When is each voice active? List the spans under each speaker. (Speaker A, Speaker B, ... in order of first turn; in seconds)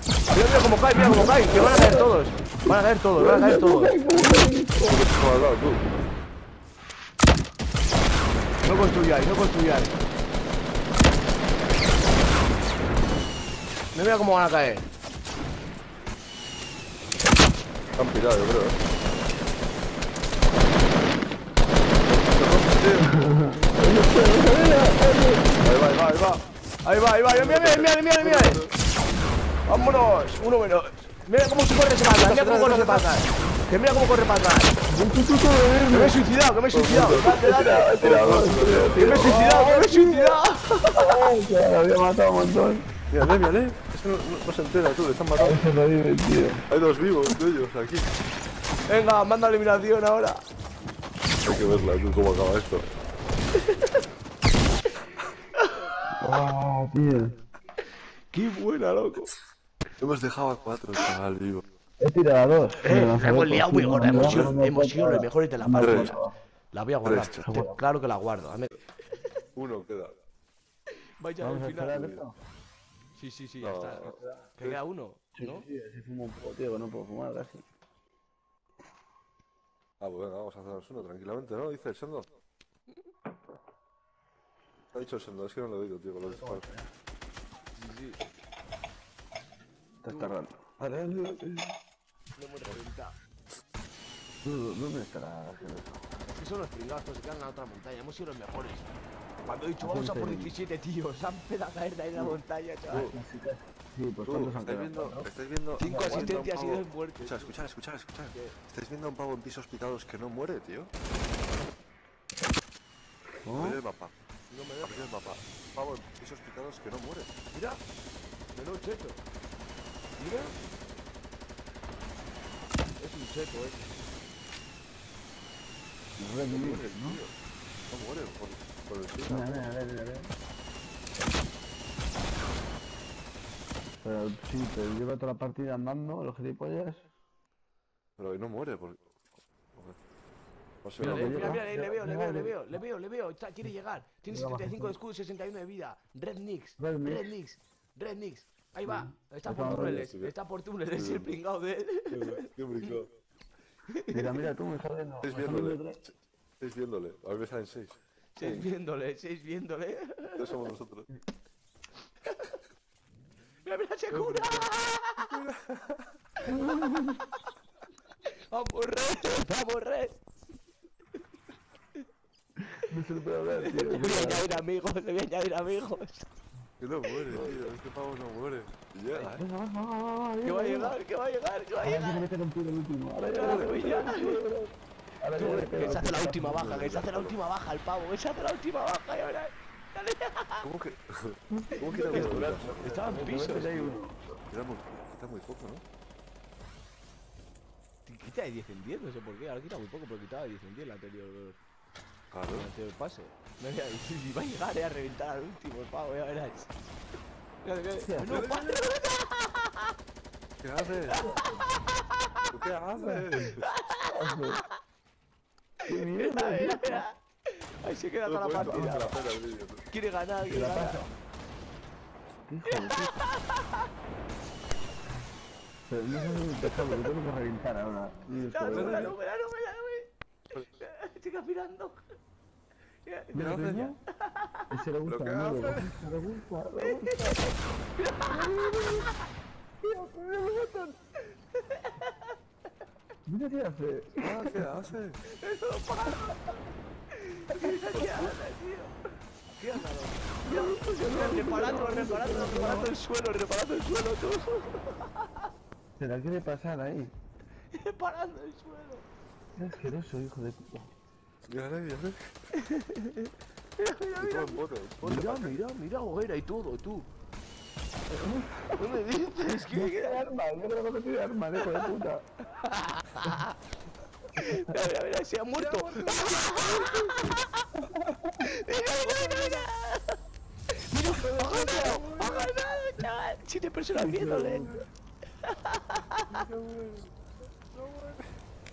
Speaker A: 0.3-4.0, 8.6-9.9, 13.9-14.8, 26.8-28.6, 29.7-34.7, 35.9-38.2, 38.9-41.2, 48.9-50.4, 53.6-54.0, 55.6-56.1, 58.3-59.3, 62.8-66.2, 66.7-68.7, 71.2-72.2, 73.2-75.6, 87.8-88.2, 90.1-90.3, 92.3-93.1, 96.2-98.9, 99.4-103.1, 105.8-107.5, 114.5-115.3, 117.5-117.8, 118.5-119.2, 120.2-120.5, 123.0-123.9, 141.0-152.4, 153.9-154.4, 158.3-160.5, 162.2-162.6, 163.6-165.3, 166.4-167.2, 168.5-170.1, 173.6-176.3, 180.4-182.3, 183.3-184.4, 185.3-190.6, 192.1-194.0, 198.1-201.6, 202.5-206.7, 207.6-209.9, 211.1-211.6, 213.7-214.1, 216.0-219.2, 219.9-221.0, 222.8-223.7, 226.3-227.0, 228.4-232.1, 233.0-233.4, 234.2-234.7, 236.8-238.6, 241.5-242.3, 245.3-246.6, 247.1-248.9, 249.5-255.4, 257.7-259.0, 262.5-267.1, 268.8-270.2, 272.5-273.6, 274.4-277.4, 278.4-280.2, 280.9-284.7, 285.4-286.2
Speaker B: 1.0-2.1, 3.2-5.0, 23.0-25.6, 34.9-36.2, 37.2-40.4, 40.9-42.8, 45.4-46.6, 56.1-57.3, 62.0-66.3, 67.5-67.8, 71.4-72.3, 74.2-74.5, 75.3-77.6, 86.3-86.9, 90.0-91.8, 94.4-96.0, 99.8-100.5, 102.9-105.3, 105.8-106.3, 113.4-113.8, 126.2-127.2, 129.3-130.3, 134.0-137.1, 141.0-142.8, 144.3-144.9, 146.8-147.3, 148.9-150.0, 154.1-156.0, 166.6-167.0, 172.9-174.5, 177.3-177.6, 179.2-180.9, 181.8-184.7, 185.2-186.6, 191.7-194.4, 208.0-208.4, 213.0-213.4, 214.1-214.6, 215.9-217.0, 218.7-218.9, 220.4-221.1, 222.5-223.2, 225.9-229.1, 233.3-234.0, 234.7-237.3, 238.3-239.1, 239.8-240.9, 243.2-244.8, 250.4-252.9, 256.0-257.1, 259.6-260.9, 268.1-268.8, 269.7-272.2, 277.8-278.2, 283.9-284.8
Speaker C: 4.8-6.1, 18.0-18.8, 22.1-23.1, 25.6-26.4, 27.3-28.7, 32.2-33.1, 36.7-37.4, 38.0-39.4, 43.1-45.6, 46.7-48.1, 51.4-52.8, 60.0-61.6, 64.0-64.6, 65.8-66.1, 67.0-67.5, 69.5-70.1, 73.6-74.8, 80.0-82.3, 84.9-86.7, 104.2-110.9, 113.5-114.1, 114.8-117.3, 126.5-127.3, 127.9-129.7, 138.2-139.0, 140.8-141.6, 149.6-150.3, 150.9-151.3, 152.1-153.1, 155.2-155.8, 156.6-158.7, 160.3-161.1, 164.1-164.7, 165.3-166.1, 176.8-179.4, 183.4-184.2, 185.6-187.4, 190.6-192.8, 194.5-195.8, 202.3-202.7, 208.2-208.8, 210.6-211.3, 212.5-213.7, 218.2-219.8, 228.7-229.2, 233.3-233.9, 235.1-235.9, 244.2-245.2, 261.5-262.2, 264.2-265.6, 275.6-277.2, 279.0-279.6, 281.2-282.5, 286.3-287.1, 287.7-288.2